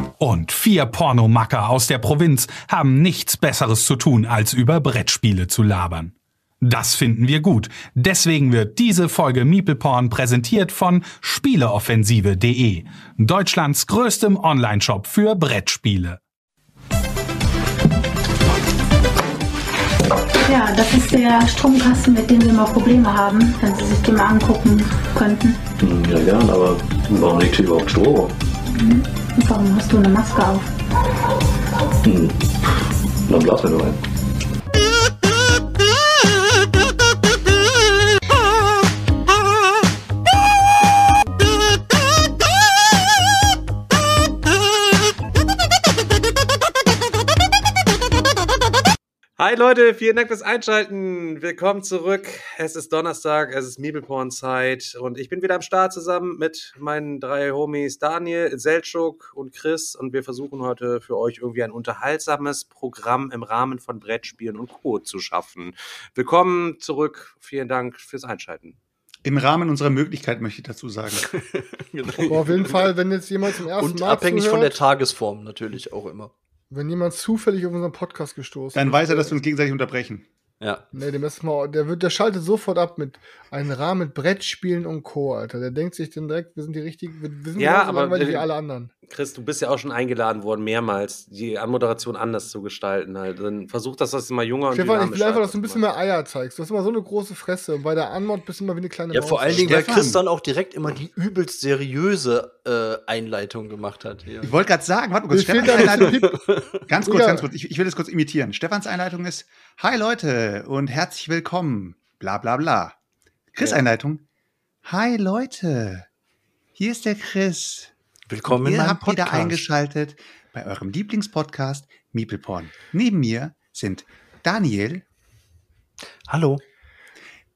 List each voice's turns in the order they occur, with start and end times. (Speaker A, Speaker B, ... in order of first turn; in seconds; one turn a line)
Speaker A: 0.2-16.2
Speaker B: 20.4-25.6
Speaker C: 25.8-28.3
Speaker B: 28.8-30.7
Speaker C: 32.0-32.7
Speaker C: 33.3-34.0
Speaker D: 49.4-68.8
Speaker E: 69.2-71.3
Speaker F: 71.3-72.9
Speaker G: 72.2-74.8
Speaker F: 73.8-76.3
Speaker G: 76.7-79.3
Speaker E: 78.8-80.3
Speaker F: 80.6-80.9
Speaker G: 80.9-88.9
Speaker D: 87.6-88.5
Speaker D: 89.1-95.8
Speaker G: 94.7-99.8
Speaker F: 99.1-104.5
Speaker E: 99.6-100.2
Speaker E: 104.4-106.3
Speaker G: 105.3-106.3
Speaker F: 105.7-106.7
Speaker E: 106.9-113.0
Speaker G: 107.0-107.5
Speaker E: 113.5-114.2
Speaker E: 114.8-116.1
Speaker E: 116.8-117.9
Speaker F: 118.3-119.7
Speaker E: 118.5-125.0
Speaker F: 126.3-126.6